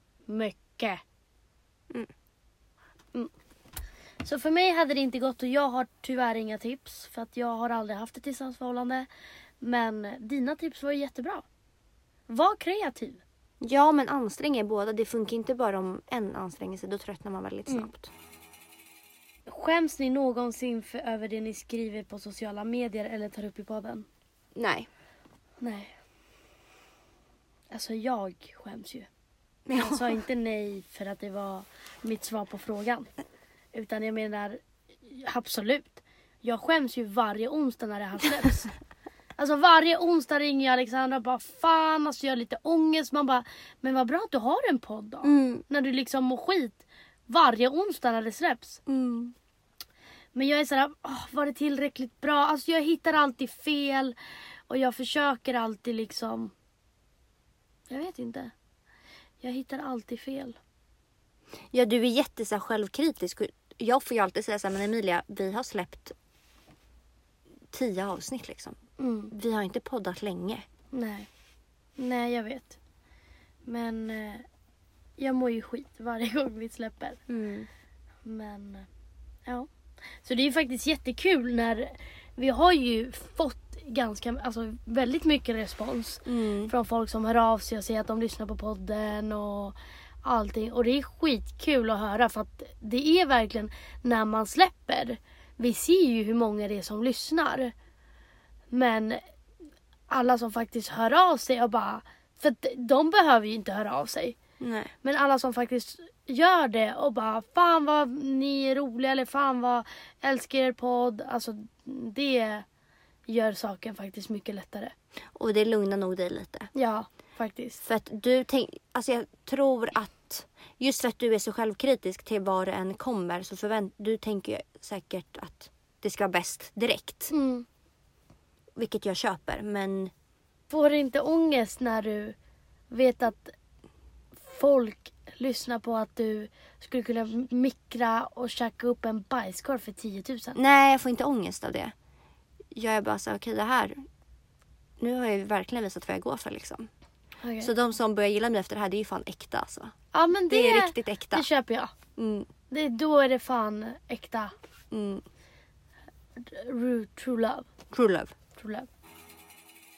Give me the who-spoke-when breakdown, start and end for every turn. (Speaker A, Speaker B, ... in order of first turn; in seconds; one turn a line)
Speaker A: 0.3-1.0
Speaker A: 4.2-9.1
Speaker A: 9.6-11.5
Speaker A: 12.3-13.2
Speaker B: 13.6-18.1
Speaker A: 19.5-24.1
Speaker B: 24.6-24.9
Speaker A: 25.6-25.9
Speaker A: 27.7-29.1
Speaker B: 29.7-30.2
Speaker A: 29.7-33.1
Speaker A: 33.7-38.7
Speaker A: 39.4-48.8
Speaker B: 45.2-45.6
Speaker B: 48.9-49.3
Speaker A: 50.4-54.1
Speaker A: 54.7-56.5
Speaker A: 57.9-58.5
Speaker A: 59.4-60.6
Speaker B: 61.7-66.1
Speaker B: 67.7-68.8
Speaker A: 69.0-69.3
Speaker B: 69.3-70.7
Speaker A: 70.9-71.3
Speaker A: 72.0-72.8
Speaker A: 73.7-74.5
Speaker A: 75.2-77.2
Speaker B: 77.3-77.7
Speaker A: 78.2-78.9
Speaker A: 80.2-97.7
Speaker B: 86.2-86.7
Speaker A: 98.7-99.2
Speaker A: 100.1-104.4
Speaker B: 104.6-104.9
Speaker A: 105.0-112.6
Speaker A: 113.3-114.9
Speaker B: 115.3-116.7
Speaker A: 116.7-117.8
Speaker B: 117.8-127.3
Speaker A: 127.3-127.6
Speaker B: 128.8-130.1
Speaker A: 130.7-132.4
Speaker A: 132.9-133.6
Speaker A: 134.4-140.6
Speaker B: 140.6-141.9
Speaker B: 142.7-144.0
Speaker B: 145.0-146.9
Speaker A: 147.4-147.7
Speaker B: 147.6-149.9
Speaker A: 150.1-151.9
Speaker B: 150.5-151.4
Speaker B: 152.2-152.5
Speaker A: 152.7-154.5
Speaker B: 154.9-155.2
Speaker A: 156.4-157.7
Speaker B: 157.9-158.3
Speaker A: 158.6-158.9